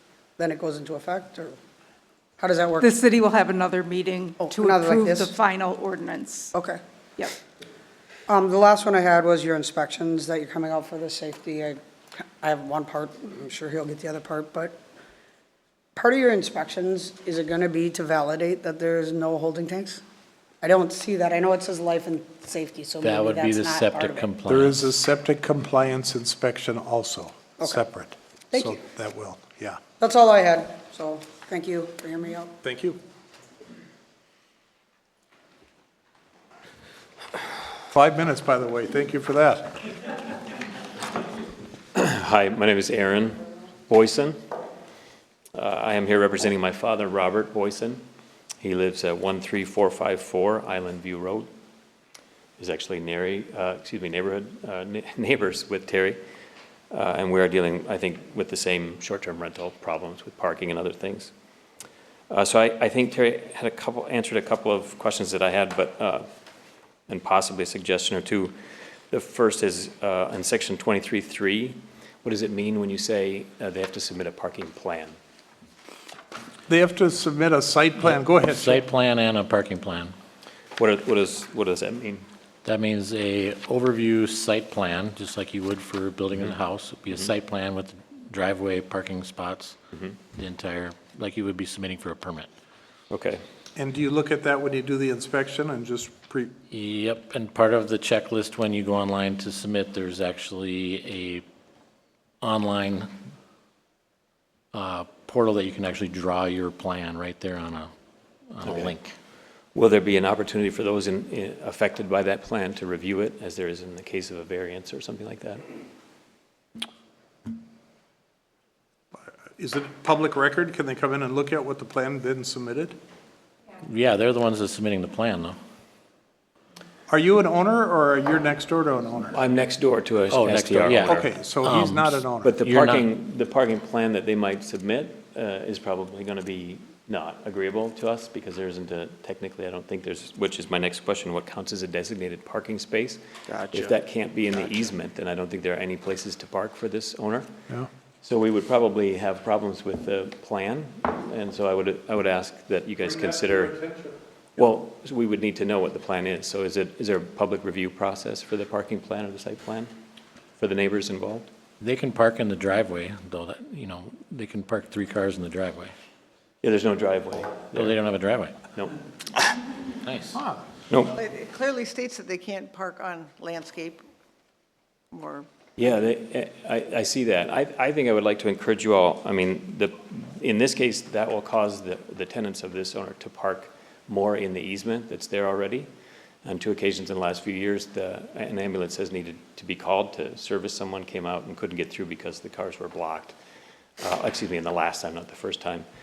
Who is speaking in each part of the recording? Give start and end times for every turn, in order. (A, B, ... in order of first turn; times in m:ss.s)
0:00.4-0:01.6 A
0:02.4-0:02.9 A
0:02.8-0:06.5 B
0:04.4-0:05.3 A
0:06.5-0:06.8 A
0:08.3-0:14.8 A
0:16.0-0:20.0 A
0:20.6-0:24.3 A
0:23.0-0:24.9 C
0:24.5-0:29.8 D
0:28.5-0:28.8 A
0:30.0-0:32.6 A
0:32.6-0:33.0 D
0:37.9-0:39.8 D
0:42.0-0:44.4 E
0:45.6-0:48.0 E
0:48.6-0:51.5 E
0:52.6-0:56.2 E
0:56.9-1:01.3 E
1:02.3-1:06.2 E
1:07.1-1:08.5 E
1:09.1-1:15.1 E
1:16.7-1:18.8 D
1:18.0-1:20.1 C
1:20.8-1:22.2 E
1:22.6-1:29.7 C
1:30.3-1:32.5 C
1:33.1-1:33.4 E
1:33.8-1:36.5 D
1:36.7-1:41.4 C
1:42.4-1:43.1 C
1:44.7-1:47.9 C
1:48.5-1:49.1 C
1:48.6-1:48.9 E
1:49.7-1:55.6 E
1:59.6-2:03.0 D
2:03.8-2:05.6 C
2:07.1-2:09.4 D
2:09.3-2:11.2 E
2:10.3-2:13.1 C
2:11.0-2:12.5 D
2:12.4-2:27.5 E
2:23.5-2:23.9 F
2:28.2-2:33.8 E
2:33.2-2:33.6 D
2:34.6-2:39.9 E
2:40.6-2:41.4 E
2:41.8-2:45.9 C
2:46.6-2:47.9 E
2:47.8-2:48.5 C
2:50.0-2:50.4 C
2:51.1-2:54.0 F
2:55.1-2:55.5 F
2:55.8-3:05.9 E
3:06.4-3:13.3 E
3:14.0-3:15.8 E